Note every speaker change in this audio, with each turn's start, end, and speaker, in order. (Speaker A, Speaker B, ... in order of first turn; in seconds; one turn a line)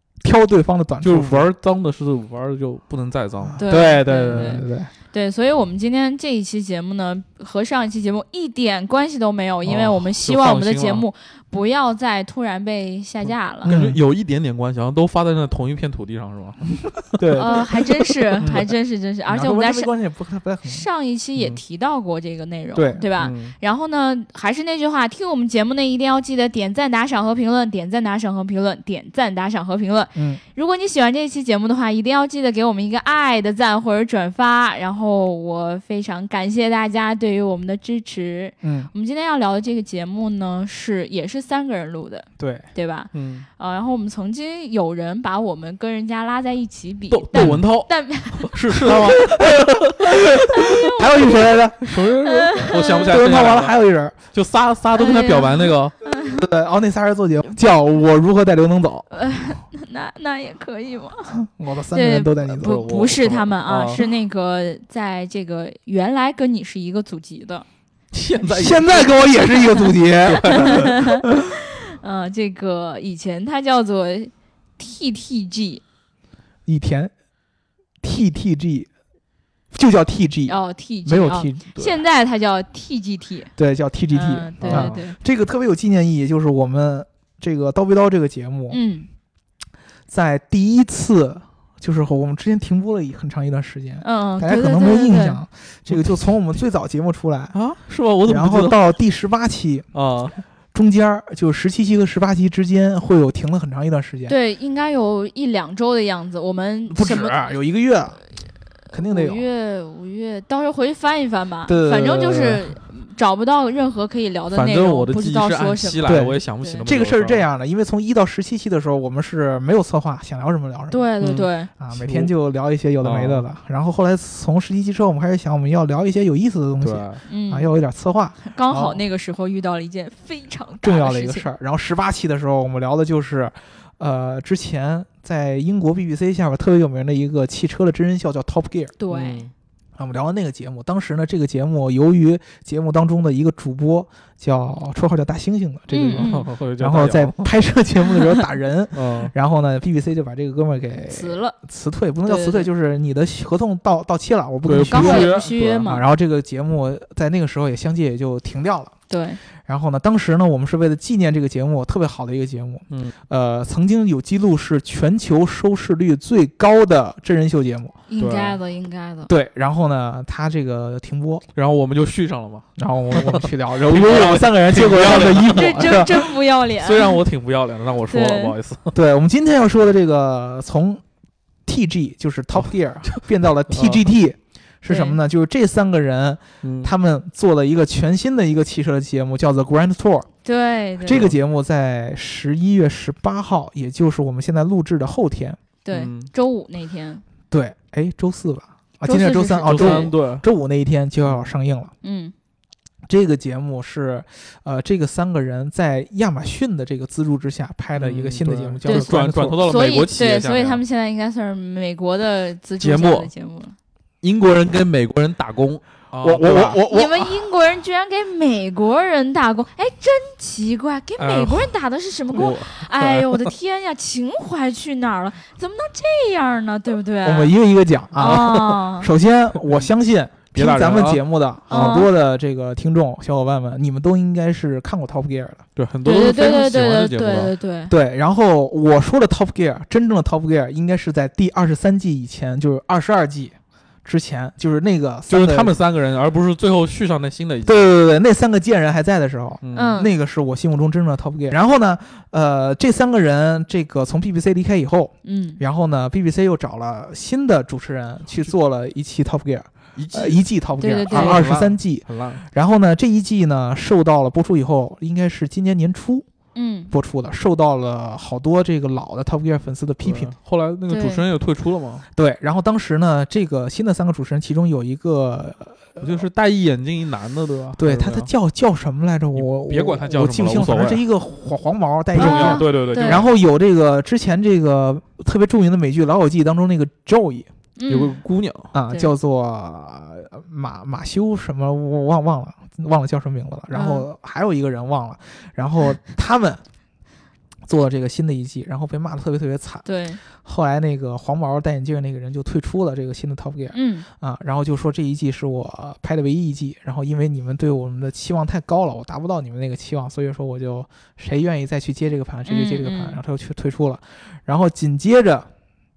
Speaker A: 0.2-1.5
Speaker B: 1.0-3.6
Speaker A: 3.5-4.9
Speaker C: 3.6-13.7
Speaker B: 4.3-4.6
Speaker B: 9.7-11.1
Speaker B: 13.2-17.1
Speaker A: 13.7-14.0
Speaker A: 17.2-17.6
Speaker C: 17.4-19.9
Speaker A: 18.4-18.8
Speaker A: 19.3-20.9
Speaker C: 20.6-48.6
Speaker A: 22.8-23.1
Speaker B: 23.2-23.6
Speaker A: 30.1-30.4
Speaker A: 38.6-38.9
Speaker A: 42.4-42.7
Speaker B: 43.1-43.5
Speaker B: 47.1-53.8
Speaker A: 47.3-47.6
Speaker A: 48.7-52.1
Speaker C: 50.5-51.4
Speaker C: 52.2-53.1
Speaker A: 53.0-54.2
Speaker B: 54.3-56.0
Speaker C: 54.9-56.5
Speaker A: 56.2-59.1
Speaker C: 59.1-61.4
Speaker A: 61.5-63.1
Speaker C: 61.9-67.7
Speaker B: 62.5-64.0
Speaker B: 68.1-69.2
Speaker A: 68.5-70.9
Speaker C: 68.9-69.9
Speaker B: 70.2-70.9
Speaker C: 70.5-71.4
Speaker C: 72.0-75.8
Speaker A: 76.7-77.1
Speaker A: 78.0-78.9
Speaker A: 79.7-82.0
Speaker C: 80.5-83.5
Speaker A: 83.6-88.8
Speaker C: 84.1-85.2
Speaker B: 84.6-85.0
Speaker C: 88.7-89.1
Speaker A: 90.1-97.6
Speaker C: 94.0-95.4
Speaker B: 97.5-98.8
Speaker A: 98.3-99.9
Speaker B: 99.9-100.4
Speaker A: 100.7-104.3
Speaker C: 104.3-107.4
Speaker A: 106.9-108.2
Speaker A: 108.9-109.5
Speaker C: 108.9-116.1
Speaker A: 111.7-112.7
Speaker B: 114.5-117.4
Speaker A: 116.1-121.1
Speaker C: 120.9-121.7
Speaker B: 121.2-122.3
Speaker A: 121.8-129.0
Speaker B: 123.0-123.5
Speaker B: 126.8-127.2
Speaker C: 127.3-127.7
Speaker C: 128.4-131.5
Speaker A: 130.8-139.0
Speaker C: 139.0-139.5
Speaker B: 139.1-139.5
Speaker A: 140.0-158.9
Speaker C: 145.9-146.5
Speaker B: 146.2-147.5
Speaker B: 148.9-149.3
Speaker C: 151.1-151.6
Speaker C: 152.2-152.7
Speaker B: 154.7-155.8
Speaker C: 154.9-156.1
Speaker C: 159.1-159.4
Speaker A: 159.6-168.0
Speaker C: 168.1-169.3
Speaker B: 168.2-168.6
Speaker A: 169.3-171.5
Speaker B: 171.6-179.0
Speaker A: 172.8-176.2
Speaker C: 175.2-177.2
Speaker C: 178.1-178.5
Speaker A: 178.9-181.0
Speaker A: 181.7-190.3
Speaker B: 183.1-184.0
Speaker C: 184.9-185.2
Speaker B: 186.6-186.9
Speaker C: 190.4-191.3
Speaker A: 191.0-195.6
Speaker B: 191.1-191.4
Speaker C: 195.8-197.2
Speaker B: 195.9-196.3
Speaker A: 197.5-201.9
Speaker C: 199.1-200.1
Speaker B: 199.7-200.5
Speaker B: 201.3-201.5
Speaker C: 202.0-202.3
Speaker A: 203.1-209.6
Speaker B: 208.0-210.8
Speaker C: 208.9-213.8
Speaker B: 212.8-213.3
Speaker B: 214.2-216.8
Speaker A: 216.2-217.3
Speaker C: 216.9-227.5
Speaker B: 221.2-221.7
Speaker B: 222.3-223.5
Speaker A: 227.2-235.6
Speaker C: 228.2-229.1
Speaker B: 228.3-228.7
Speaker B: 230.5-231.2
Speaker C: 231.7-232.1
Speaker B: 235.8-237.5
Speaker C: 236.1-237.9
Speaker A: 237.9-245.7
Speaker B: 245.3-247.9
Speaker A: 247.7-266.3
Speaker B: 249.6-250.0
Speaker C: 249.7-250.1
Speaker C: 255.2-255.6
Speaker B: 260.0-260.4
Speaker C: 260.8-261.4
Speaker B: 261.1-262.4
Speaker C: 266.6-266.9
Speaker A: 266.9-270.3
Speaker B: 270.0-272.1
Speaker C: 270.9-271.2
Speaker A: 272.1-276.3
Speaker B: 276.0-278.3
Speaker A: 277.8-287.5
Speaker B: 279.4-281.0
Speaker B: 282.1-283.3
Speaker C: 282.1-283.2
Speaker C: 287.8-288.2
Speaker B: 287.9-288.7
Speaker A: 288.7-296.6
Speaker C: 293.7-294.1
Speaker A: 297.7-315.5
Speaker C: 299.8-300.2
Speaker C: 303.7-304.1
Speaker C: 312.5-313.2